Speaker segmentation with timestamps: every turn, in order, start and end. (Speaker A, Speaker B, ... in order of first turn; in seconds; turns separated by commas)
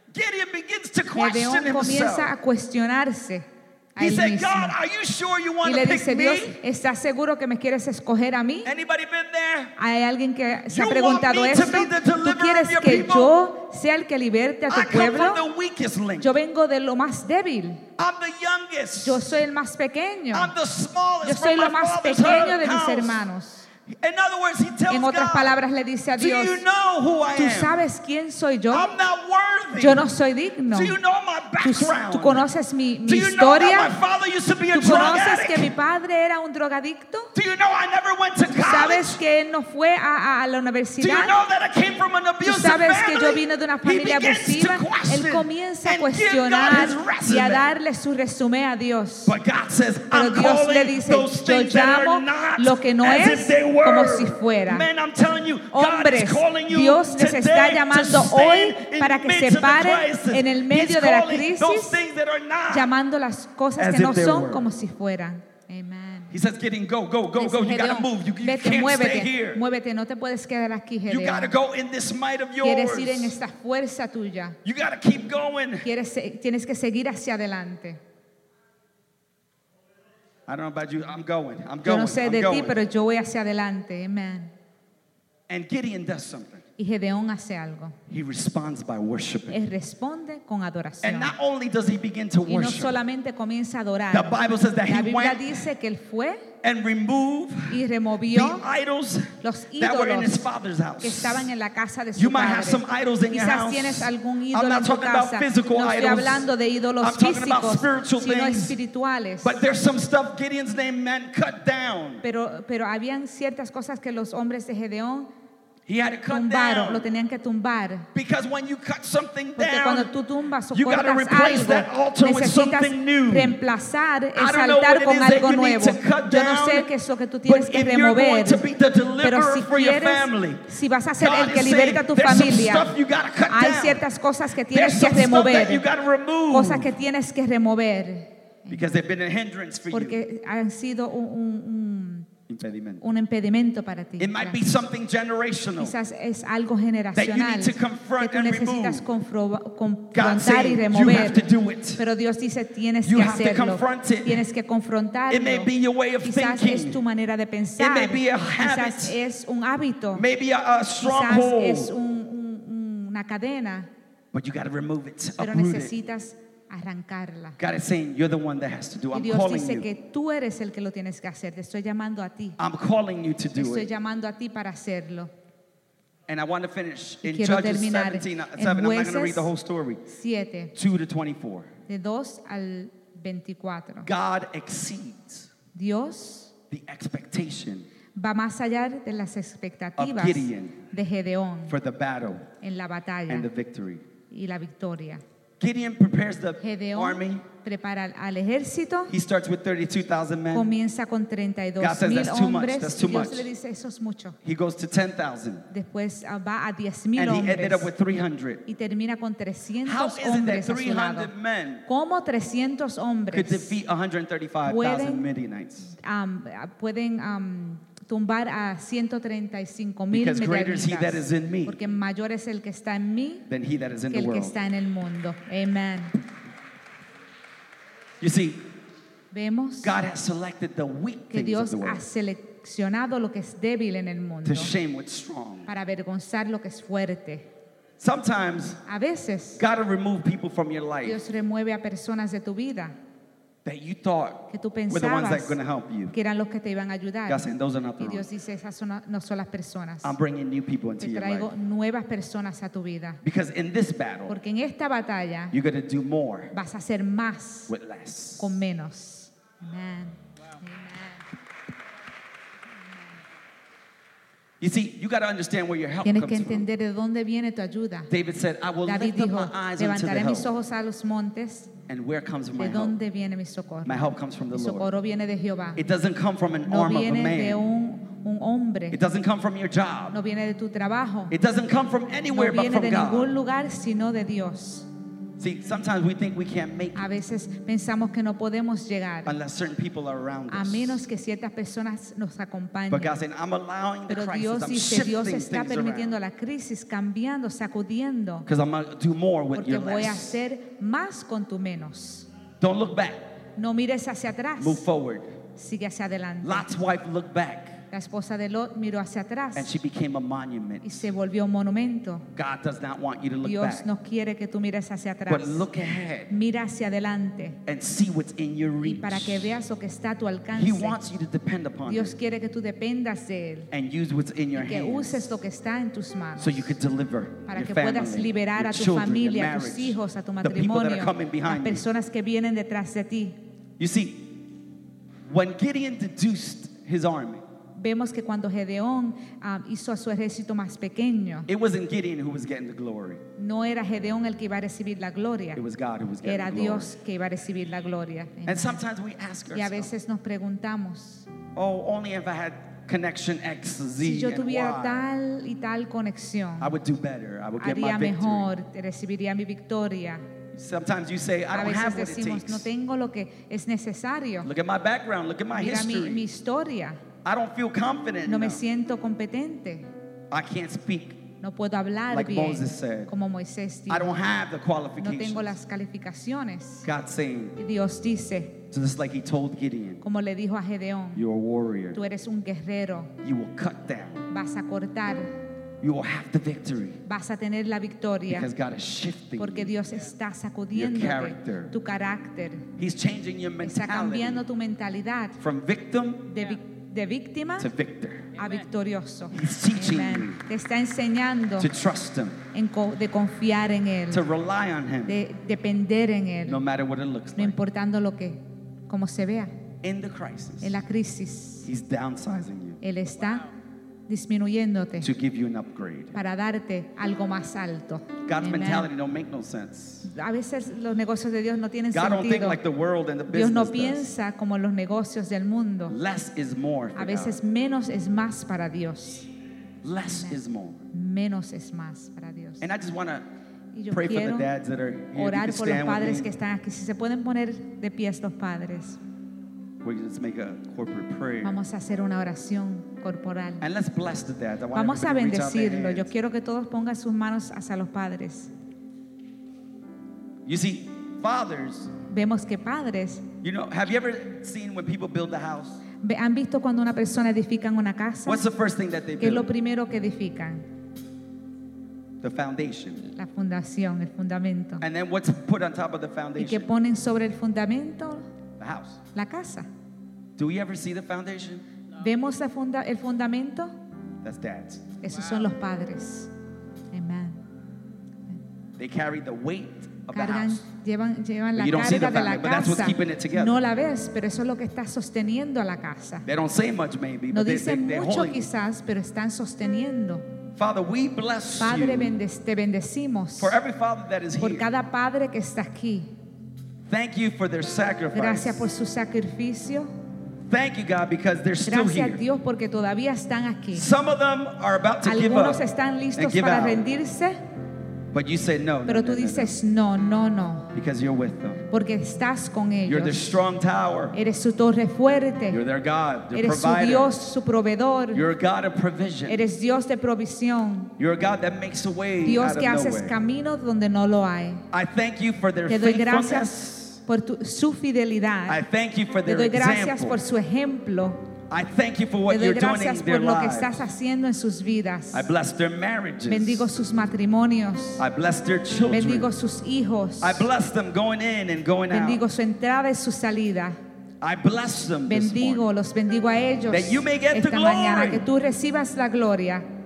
Speaker A: 0.1-2.3, Speaker B: 1.1-4.8, Speaker A: 4.0-6.6, Speaker B: 5.6-8.7, Speaker A: 8.7-9.8, Speaker B: 9.8-15.4, Speaker A: 10.7-13.4, Speaker A: 14.7-16.4, Speaker B: 16.2-17.9, Speaker A: 18.0-19.3, Speaker B: 19.0-20.5, Speaker A: 20.3-23.2, Speaker B: 21.2-23.7, Speaker A: 23.9-25.6, Speaker B: 24.9-26.6, Speaker A: 26.2-27.8, Speaker B: 27.4-28.9, Speaker A: 28.7-30.0, Speaker B: 29.8-31.0, Speaker A: 30.7-32.5, Speaker B: 31.6-33.9, Speaker A: 33.1-35.7, Speaker B: 34.7-37.3, Speaker A: 37.4-39.2, Speaker B: 38.6-41.4, Speaker A: 41.0-47.7, Speaker B: 42.4-49.4, Speaker A: 49.3-62.9, Speaker B: 50.1-54.9, Speaker B: 55.7-62.0, Speaker B: 62.7-66.3, Speaker A: 63.8-64.7, Speaker A: 66.3-69.6, Speaker B: 67.3-71.5, Speaker A: 71.1-73.4, Speaker B: 72.6-74.6, Speaker A: 74.7-75.9, Speaker B: 75.8-78.0, Speaker A: 80.5-82.8, Speaker B: 81.8-84.5, Speaker A: 85.5-86.6, Speaker B: 86.8-88.0, Speaker A: 88.1-89.6, Speaker B: 89.5-91.3, Speaker A: 91.0-93.0, Speaker B: 92.5-96.5, Speaker A: 94.1-95.5, Speaker A: 96.6-101.5, Speaker B: 97.7-98.7, Speaker B: 99.4-100.4, Speaker B: 101.0-109.6, Speaker A: 102.2-106.5, Speaker A: 107.0-108.8, Speaker A: 109.4-112.2, Speaker B: 112.2-115.3, Speaker A: 115.9-117.1, Speaker B: 116.3-118.1, Speaker A: 118.1-120.1, Speaker B: 119.6-128.7, Speaker A: 120.7-123.6, Speaker A: 124.3-126.9, Speaker A: 127.5-130.7, Speaker B: 129.2-132.9, Speaker A: 131.2-134.0, Speaker B: 133.5-135.8, Speaker A: 134.7-137.0, Speaker B: 136.5-138.9, Speaker A: 138.7-140.2, Speaker B: 139.9-142.3, Speaker A: 142.5-143.1, Speaker B: 143.0-144.6, Speaker A: 144.2-146.0, Speaker B: 145.8-151.4, Speaker A: 147.2-149.1, Speaker A: 150.1-152.0, Speaker B: 152.0-155.7, Speaker A: 153.1-154.4, Speaker A: 155.3-157.0, Speaker B: 156.2-160.2, Speaker A: 157.8-159.2, Speaker A: 160.1-161.9, Speaker B: 161.0-163.9, Speaker A: 164.3-165.9, Speaker B: 165.4-167.6, Speaker A: 167.6-169.9, Speaker B: 169.1-172.6, Speaker A: 172.6-173.9, Speaker B: 173.6-175.3, Speaker A: 176.3-180.1, Speaker B: 177.2-179.5, Speaker B: 180.1-180.7, Speaker A: 180.8-181.7, Speaker B: 181.9-184.1, Speaker A: 184.1-185.5, Speaker B: 185.8-186.5, Speaker A: 186.7-187.9, Speaker B: 188.2-191.8, Speaker A: 190.0-190.8, Speaker A: 191.7-192.5, Speaker B: 192.6-193.5, Speaker A: 193.3-194.0, Speaker B: 194.3-195.2, Speaker A: 195.6-197.5, Speaker B: 196.6-199.1, Speaker A: 199.1-200.7, Speaker B: 200.5-204.4, Speaker A: 201.8-203.5, Speaker A: 204.4-205.7, Speaker B: 205.7-207.9, Speaker A: 207.2-208.6, Speaker B: 208.7-211.3, Speaker A: 209.8-211.9, Speaker B: 211.9-213.8, Speaker A: 213.3-215.9, Speaker B: 214.7-215.3, Speaker B: 215.9-223.5, Speaker A: 220.1-221.9, Speaker A: 223.5-224.6, Speaker B: 224.1-226.2, Speaker A: 228.2-228.6, Speaker B: 229.3-229.9, Speaker A: 229.8-232.1, Speaker B: 231.3-234.7, Speaker A: 234.4-235.7, Speaker B: 235.7-237.5, Speaker A: 238.0-238.8, Speaker B: 238.9-239.6, Speaker A: 239.6-241.2, Speaker B: 241.0-243.0, Speaker A: 243.7-246.2, Speaker B: 244.5-245.6, Speaker B: 246.1-250.2, Speaker A: 247.3-248.3, Speaker A: 250.0-251.5, Speaker B: 251.0-253.2, Speaker A: 253.2-254.4, Speaker B: 254.3-255.6, Speaker A: 255.5-256.5, Speaker B: 256.5-257.7, Speaker A: 257.7-258.6, Speaker B: 258.4-261.2, Speaker A: 264.6-266.7, Speaker B: 266.0-268.1, Speaker A: 268.1-270.5, Speaker B: 268.9-271.7, Speaker A: 271.9-272.9, Speaker B: 272.6-275.8, Speaker A: 273.9-274.9, Speaker A: 275.8-277.6, Speaker B: 276.7-279.0, Speaker A: 278.9-280.2, Speaker B: 280.1-281.3, Speaker A: 281.3-283.3, Speaker B: 282.3-284.9, Speaker A: 285.4-287.1, Speaker B: 286.9-289.3, Speaker A: 289.3-291.0, Speaker B: 290.5-293.1, Speaker A: 292.9-296.2, Speaker B: 294.1-298.5, Speaker A: 298.5-300.4, Speaker B: 299.5-302.3, Speaker A: 302.6-303.2, Speaker B: 303.6-304.9, Speaker A: 304.6-305.4, Speaker B: 305.6-306.7, Speaker A: 306.4-307.8, Speaker B: 307.9-309.7, Speaker A: 309.6-311.1, Speaker B: 310.8-312.3, Speaker A: 312.3-313.9, Speaker B: 313.4-315.7, Speaker A: 315.3-316.3, Speaker B: 316.3-317.6, Speaker A: 317.6-319.6, Speaker B: 318.8-321.0, Speaker A: 320.5-322.2, Speaker B: 321.9-323.7, Speaker A: 323.7-325.4, Speaker B: 324.5-326.7, Speaker A: 326.4-331.8, Speaker B: 327.5-333.4, Speaker A: 333.8-334.4, Speaker A: 335.3-337.4, Speaker B: 337.8-341.5, Speaker A: 341.5-343.2, Speaker B: 343.4-345.6, Speaker A: 345.5-346.9, Speaker B: 346.2-348.8, Speaker A: 348.5-349.9, Speaker B: 349.5-351.3, Speaker A: 351.6-355.1, Speaker B: 354.0-356.7, Speaker A: 356.6-358.5, Speaker B: 357.6-360.3, Speaker A: 360.5-362.7, Speaker B: 361.5-364.5, Speaker A: 364.4-366.3, Speaker B: 365.5-367.0, Speaker A: 367.2-368.6, Speaker B: 368.3-369.9, Speaker A: 370.3-371.2, Speaker B: 371.4-374.1, Speaker A: 372.1-373.1, Speaker A: 373.9-375.6, Speaker B: 375.0-376.9, Speaker A: 376.8-377.6, Speaker B: 377.6-378.6, Speaker A: 378.7-380.0, Speaker B: 380.0-381.2, Speaker A: 381.1-382.0, Speaker B: 381.9-383.1, Speaker A: 383.2-384.3, Speaker B: 384.3-385.3, Speaker A: 385.8-387.0, Speaker B: 387.1-388.5, Speaker A: 388.3-389.8, Speaker B: 389.4-392.7, Speaker A: 390.7-391.7, Speaker A: 392.8-394.4, Speaker B: 393.6-395.4, Speaker A: 395.4-396.3, Speaker B: 396.3-397.7, Speaker A: 397.6-398.4, Speaker B: 398.4-401.7, Speaker A: 399.3-400.4, Speaker A: 401.6-402.4, Speaker B: 402.5-404.3, Speaker A: 404.1-405.2, Speaker B: 405.1-406.6, Speaker A: 406.5-407.6, Speaker B: 407.4-409.5, Speaker A: 409.8-410.8, Speaker B: 410.6-411.7, Speaker A: 411.6-412.8, Speaker B: 412.8-413.5, Speaker B: 414.1-415.1, Speaker A: 415.0-416.2, Speaker B: 416.1-418.9, Speaker A: 418.3-420.1, Speaker B: 420.1-422.6, Speaker A: 421.9-424.1, Speaker B: 423.3-426.0, Speaker A: 425.9-427.4, Speaker B: 427.0-429.3, Speaker A: 429.8-430.8, Speaker B: 430.9-432.7, Speaker A: 432.6-433.3, Speaker B: 433.7-434.5, Speaker A: 433.9-436.3, Speaker B: 435.1-439.0, Speaker A: 439.8-441.6, Speaker B: 441.4-443.6, Speaker A: 443.6-446.1, Speaker B: 444.7-448.5, Speaker A: 450.4-451.9, Speaker B: 452.1-453.3, Speaker A: 453.4-455.8, Speaker B: 456.0-458.4, Speaker A: 458.2-459.5, Speaker B: 459.2-460.6, Speaker A: 462.2-463.1, Speaker B: 463.1-464.8, Speaker A: 464.8-466.7, Speaker B: 466.4-468.3, Speaker A: 468.6-469.0, Speaker B: 469.1-469.7, Speaker A: 470.4-471.6, Speaker B: 472.0-473.7, Speaker A: 474.2-474.9, Speaker B: 475.0-476.3, Speaker B: 476.9-477.4, Speaker A: 478.8-480.6, Speaker B: 480.1-486.3, Speaker A: 481.6-483.6, Speaker A: 486.2-488.5, Speaker B: 487.3-490.2, Speaker A: 490.6-492.2, Speaker B: 491.6-493.6, Speaker A: 493.4-494.7, Speaker B: 494.4-496.1, Speaker A: 496.9-498.6, Speaker B: 498.1-499.9, Speaker A: 500.5-502.2, Speaker B: 501.6-503.9, Speaker A: 503.7-505.6, Speaker B: 505.0-507.4, Speaker A: 506.1-506.9, Speaker A: 508.1-509.6, Speaker B: 508.9-510.7, Speaker A: 510.7-511.6, Speaker B: 511.7-513.4, Speaker A: 512.9-514.2, Speaker B: 514.1-515.6, Speaker A: 515.5-517.1, Speaker B: 516.3-518.2, Speaker A: 518.1-519.5, Speaker B: 519.3-520.9, Speaker A: 521.0-523.1, Speaker B: 522.2-524.6, Speaker A: 524.7-527.0, Speaker B: 525.7-526.5, Speaker B: 527.1-528.6, Speaker A: 528.5-530.2, Speaker B: 529.3-531.2, Speaker A: 531.5-533.8, Speaker B: 532.3-535.3, Speaker A: 535.1-536.7, Speaker B: 536.3-538.0, Speaker A: 538.0-539.3, Speaker B: 538.9-540.5, Speaker A: 540.2-542.2, Speaker B: 541.9-543.8, Speaker A: 544.2-545.7, Speaker B: 545.1-549.7, Speaker A: 546.7-548.3